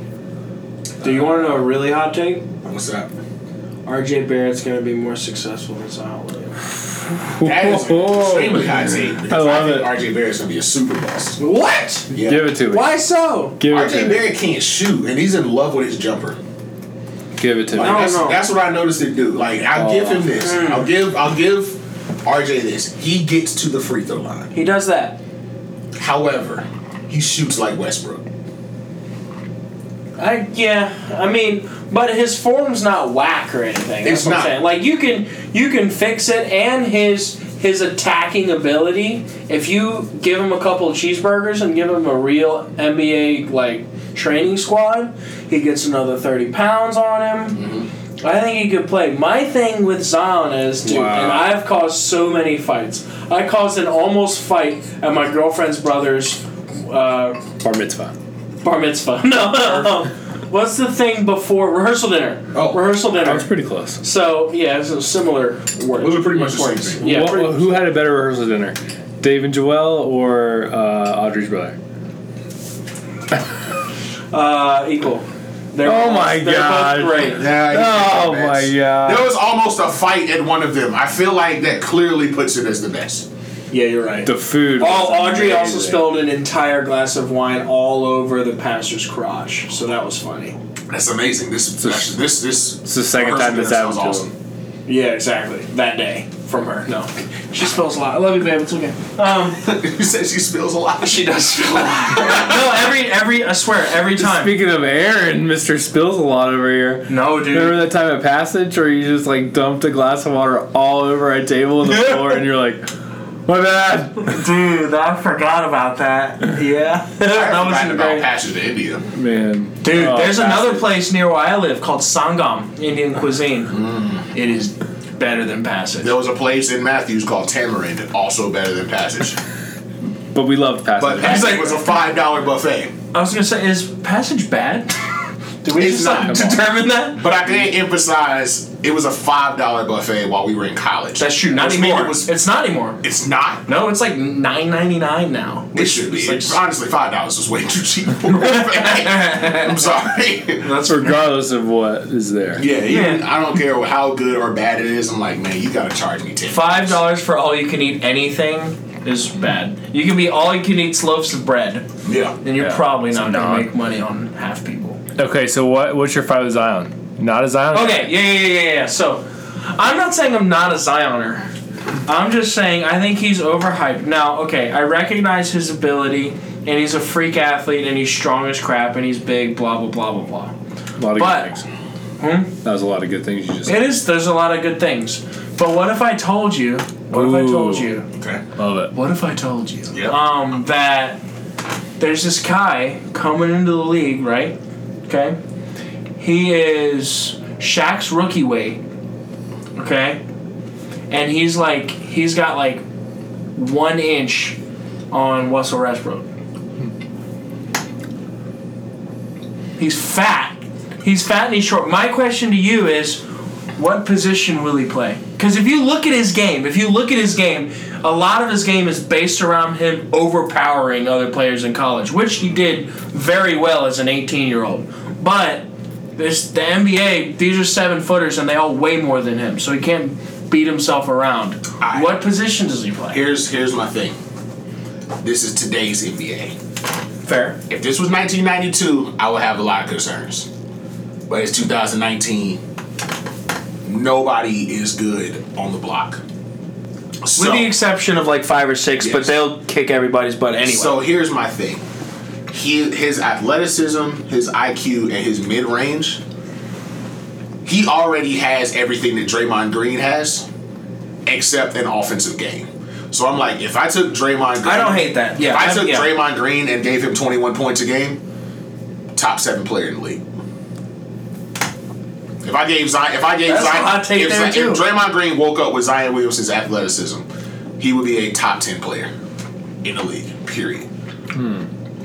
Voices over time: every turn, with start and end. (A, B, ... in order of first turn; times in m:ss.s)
0:01.0-0:02.5 A
0:01.0-0:01.3 B
0:02.6-0:03.1 C
0:03.8-0:06.6 A
0:07.2-0:09.9 B
0:07.4-0:11.4 C
0:11.4-0:13.6 A
0:12.1-0:12.5 C
0:12.2-0:12.9 B
0:13.6-0:14.2 B
0:13.7-0:16.4 C
0:17.4-0:18.2 B
0:17.7-0:24.5 C
0:17.8-0:18.4 A
0:19.7-0:20.2 B
0:20.3-0:20.9 A
0:24.5-0:25.2 A
0:26.0-0:28.2 C
0:30.2-0:47.6 A
0:34.0-0:34.6 C
0:47.5-0:47.9 C
0:48.2-0:57.4 A
0:50.8-0:51.5 B
0:57.6-0:58.1 B
0:58.6-1:03.5 A
0:59.6-0:59.9 C
1:02.5-1:02.9 C
1:03.1-1:04.0 B
1:04.0-1:07.9 A
1:06.0-1:07.1 C
1:07.0-1:11.8 B
1:14.3-1:17.5 A
1:15.8-1:19.3 B
1:17.3-1:23.2 C
1:23.7-1:30.6 A
1:24.2-1:26.1 B
1:30.9-1:34.3 C
1:31.8-1:32.2 B
1:32.8-1:34.3 B
1:34.8-1:39.6 A
1:39.5-1:42.6 C
1:41.0-1:44.6 A
1:44.2-1:52.9 B
1:47.1-1:47.8 A
1:51.8-1:52.4 A
1:53.4-1:54.4 B
1:54.2-1:58.3 A
1:57.2-1:59.0 C
1:59.1-2:01.0 B
1:59.8-2:03.7 A
2:03.7-2:04.3 C
2:04.3-2:06.2 A
2:06.0-2:09.4 C
2:10.3-2:11.6 B
2:11.0-2:12.9 C
2:11.2-2:11.8 A
2:13.1-2:14.9 A
2:15.6-2:17.2 A
2:15.7-2:16.6 C
2:16.3-2:16.6 B
2:17.1-2:22.3 C
2:21.2-2:23.0 A
2:23.0-2:23.6 C
2:23.7-2:26.6 A
2:25.7-2:30.8 C
2:28.3-2:29.7 A
2:30.6-2:31.2 A
2:30.8-2:32.6 B
2:32.6-2:37.0 C
2:32.8-2:33.2 A
2:36.5-2:41.8 A
2:42.0-2:42.4 C
2:42.4-2:45.0 A
2:42.6-2:43.7 B
2:45.2-2:48.1 B
2:47.7-2:51.5 A
2:52.0-3:00.5 A
3:01.0-3:01.6 B
3:01.1-3:01.5 A
3:02.2-3:02.5 A
3:02.6-3:03.9 B
3:03.6-3:08.1 A
3:07.1-3:07.9 B
3:08.1-3:08.4 C
3:08.6-3:08.9 B
3:08.9-3:11.2 A
3:09.9-3:10.2 C
3:12.0-3:15.4 A
3:16.2-3:18.8 A
3:19.8-3:20.2 A
3:21.1-3:22.8 A
3:23.6-3:24.6 A
3:25.1-3:26.3 A
3:29.8-3:33.2 A
3:33.8-3:53.2 A
3:51.8-3:52.1 C
3:53.1-3:54.2 C
3:55.2-3:56.5 C
3:57.2-3:57.6 A
3:57.7-4:00.5 C
4:01.3-4:02.6 C
4:03.8-4:06.2 C
4:07.2-4:07.7 C
4:07.4-4:11.0 A
4:09.0-4:09.4 C
4:10.6-4:11.8 C
4:12.5-4:16.2 C
4:17.6-4:20.4 C
4:21.2-4:28.2 C
4:24.6-4:26.1 A
4:29.1-4:30.2 C
4:32.4-4:37.3 C
4:33.5-4:34.8 A
4:37.8-4:39.1 C
4:39.8-4:40.9 C
4:41.3-4:41.7 B